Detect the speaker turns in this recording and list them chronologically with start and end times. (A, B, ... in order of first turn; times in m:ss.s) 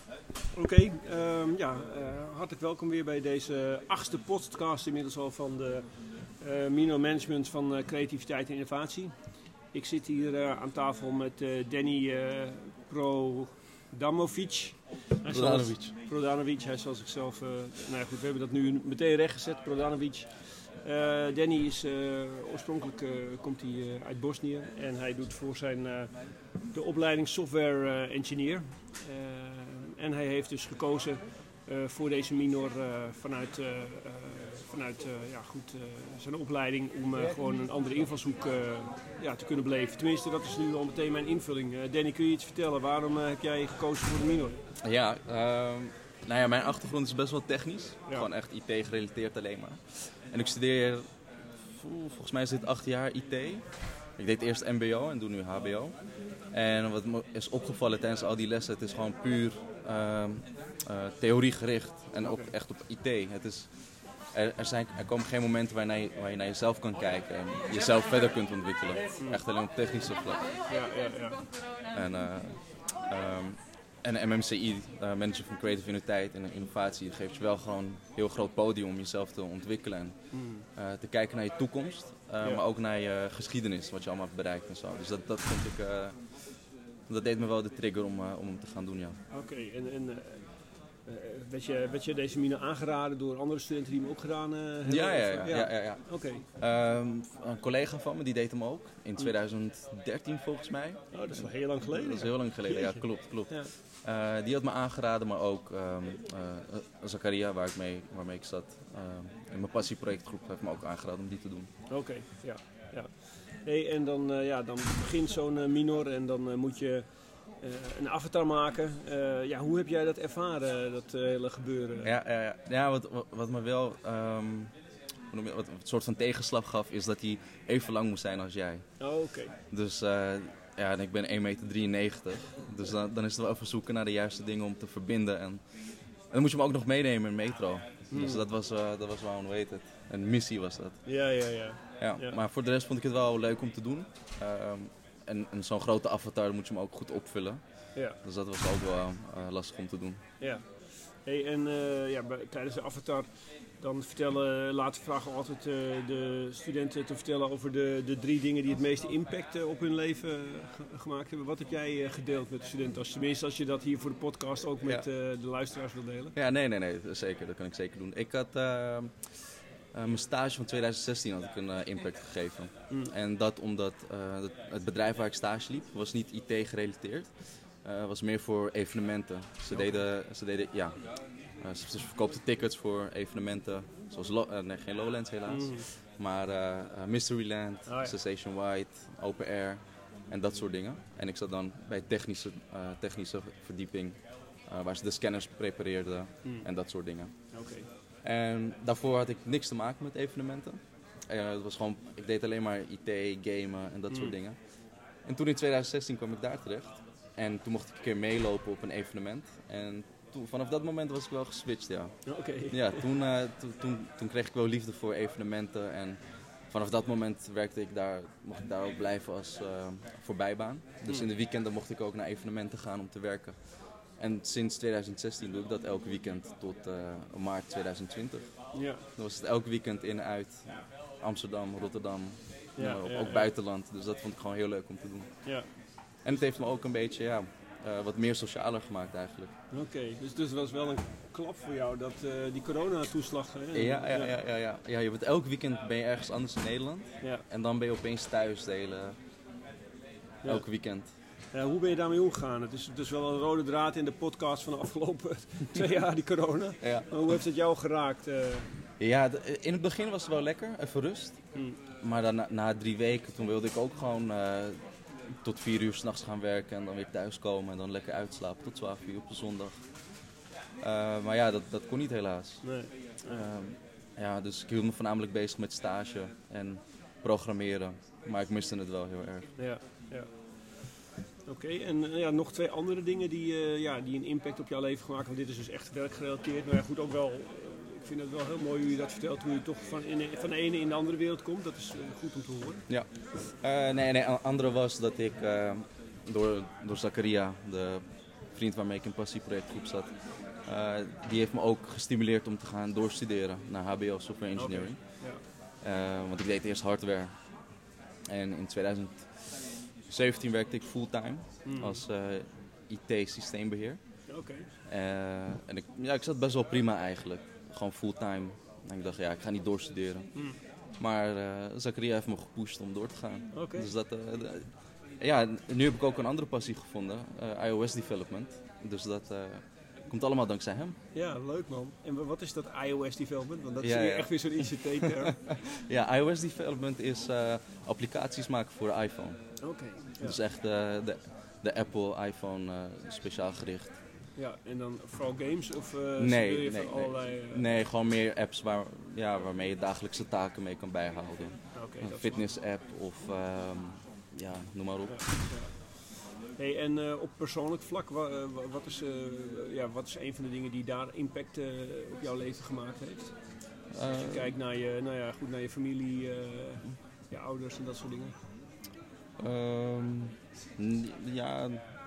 0:00.5-0:44.6 A
0:15.3-0:15.9 B
0:44.8-0:51.0 B
0:51.6-1:10.5 B
1:02.2-1:02.5 A
1:10.7-1:11.4 A
1:11.9-1:29.2 B
1:20.3-1:20.7 A
1:29.3-1:36.4 A
1:34.9-1:51.7 B
1:41.1-1:43.7 A
1:51.9-1:57.1 A
1:57.6-2:02.1 A
2:02.0-2:04.7 B
2:05.3-2:21.2 B
2:09.0-2:09.5 A
2:18.1-2:18.4 A
2:21.0-2:22.4 A
2:22.0-2:30.2 B
2:27.9-2:28.2 A
2:30.4-2:46.4 A
2:46.4-3:17.6 B
2:52.9-2:53.1 A
2:59.7-3:00.0 A
3:05.5-3:05.9 A
3:07.9-3:08.2 A
3:17.5-3:17.9 A
3:18.2-3:20.8 B
3:21.3-3:59.5 B
3:24.1-3:24.4 A
3:32.3-3:33.1 A
3:48.7-3:49.1 A
3:52.8-3:53.5 A
3:55.4-3:55.7 A
3:59.7-4:04.4 A
4:03.7-4:09.2 B
4:10.4-4:11.1 B
4:11.5-4:18.7 A
4:16.8-4:17.4 B
4:19.0-4:21.4 B
4:22.0-4:30.0 B
4:30.8-4:39.6 B
4:32.6-4:33.5 A
4:39.6-4:40.6 A
4:41.5-4:52.9 A
4:52.9-5:31.0 B
5:04.6-5:05.4 A
5:11.6-5:12.0 A
5:14.3-5:14.7 A
5:20.3-5:20.6 A
5:23.5-5:23.9 A
5:31.1-5:35.6 A
5:33.8-5:35.0 B
5:35.7-5:44.0 B
5:39.6-5:40.4 A
5:44.4-5:47.8 A
5:46.2-5:55.5 B
5:51.7-5:52.5 A
5:55.0-6:08.4 A
6:03.9-6:04.6 B
6:09.4-6:11.8 B